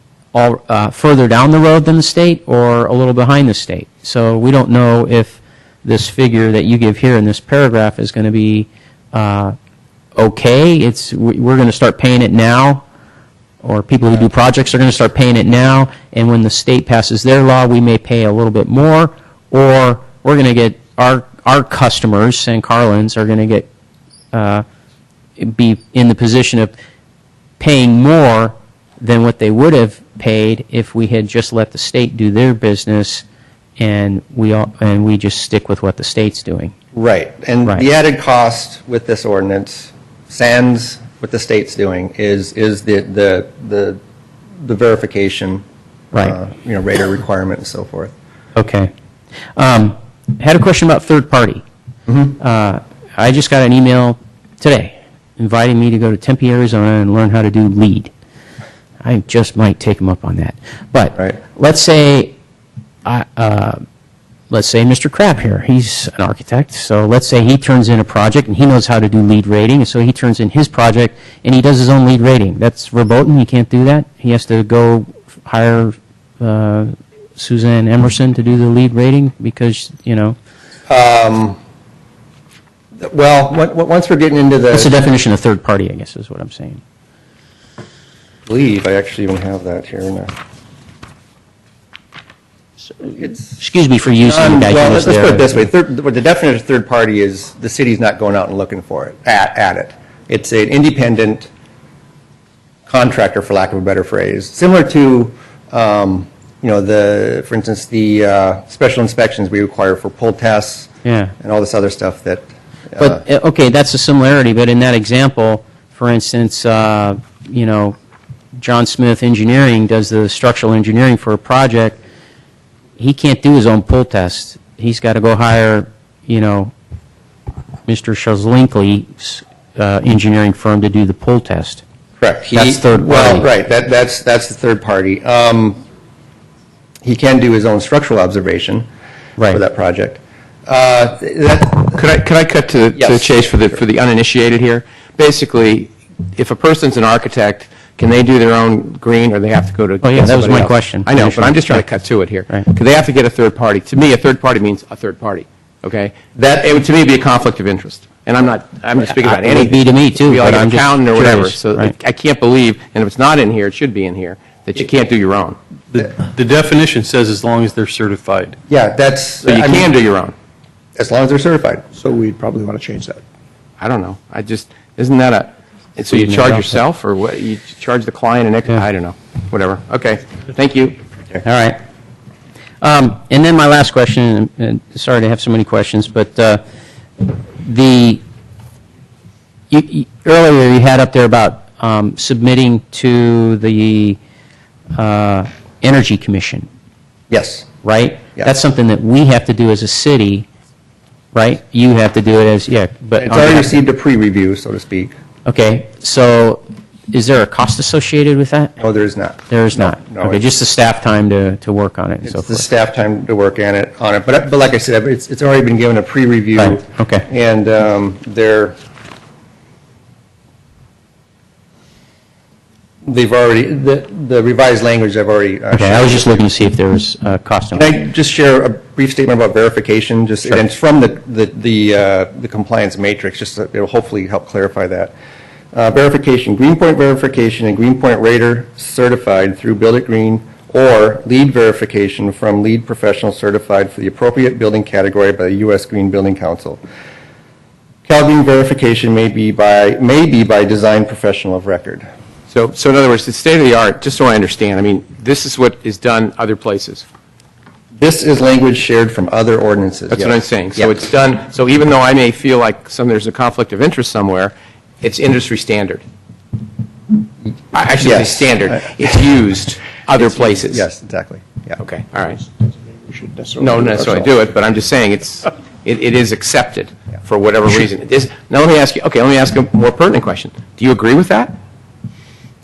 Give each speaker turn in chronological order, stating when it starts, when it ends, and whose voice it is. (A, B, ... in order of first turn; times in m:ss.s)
0:00.3-0:09.5 A
0:10.2-0:12.8 A
0:13.6-0:23.7 A
0:24.3-0:24.6 A
0:25.4-0:26.7 A
0:27.6-0:33.2 A
0:33.8-0:36.7 A
0:36.9-0:44.0 B
0:44.6-0:45.6 B
0:46.2-0:48.1 B
0:48.6-0:48.9 A
0:49.6-0:51.6 A
0:52.1-0:52.3 B
0:52.4-0:58.1 A
0:59.0-1:02.3 A
1:03.0-1:03.8 A
1:04.5-1:20.4 A
1:20.9-1:21.6 B
1:23.0-1:24.9 B
1:24.7-1:26.8 A
1:28.5-1:30.3 B
1:33.2-1:35.7 A
1:34.2-1:41.5 B
1:42.9-1:50.9 B
1:51.0-1:51.3 A
1:51.4-1:53.2 B
1:53.0-1:57.9 A
1:58.6-2:02.0 A
2:03.0-2:06.7 A
2:07.9-2:11.8 A
2:12.2-2:15.8 B
2:12.5-2:13.5 A
2:17.0-2:18.8 B
2:19.5-2:22.0 B
2:21.9-2:45.6 C
2:23.0-2:23.3 B
2:30.0-2:31.8 A
2:39.2-2:41.9 A
2:45.9-2:48.6 D
2:48.7-2:49.9 B
2:49.4-2:50.3 C
2:51.0-2:51.8 B
2:51.9-2:53.2 E
2:53.8-3:01.0 C
2:56.1-2:56.8 A
3:01.4-3:01.8 A
3:02.8-3:06.6 A
3:07.2-3:08.2 A
3:09.7-3:14.2 A
3:15.0-3:16.7 A
3:17.3-3:17.7 B
3:17.8-3:20.5 A
3:21.3-3:23.7 A
3:23.2-3:25.1 B
3:25.4-3:28.8 A
3:28.8-3:30.4 B
3:29.5-3:32.6 A
3:32.2-3:38.8 B
3:36.6-3:37.2 A
3:43.0-3:46.5 B
3:45.7-3:47.9 A
3:47.7-3:55.1 B
3:55.7-4:06.8 B
4:08.1-4:12.1 B
4:12.5-4:17.0 C
4:18.0-4:21.0 B
4:20.1-4:26.0 C
4:27.7-4:30.8 C
4:28.0-4:28.9 B
4:30.2-4:31.8 B
4:31.8-4:32.4 C
4:32.4-4:34.4 E
4:33.6-4:41.6 C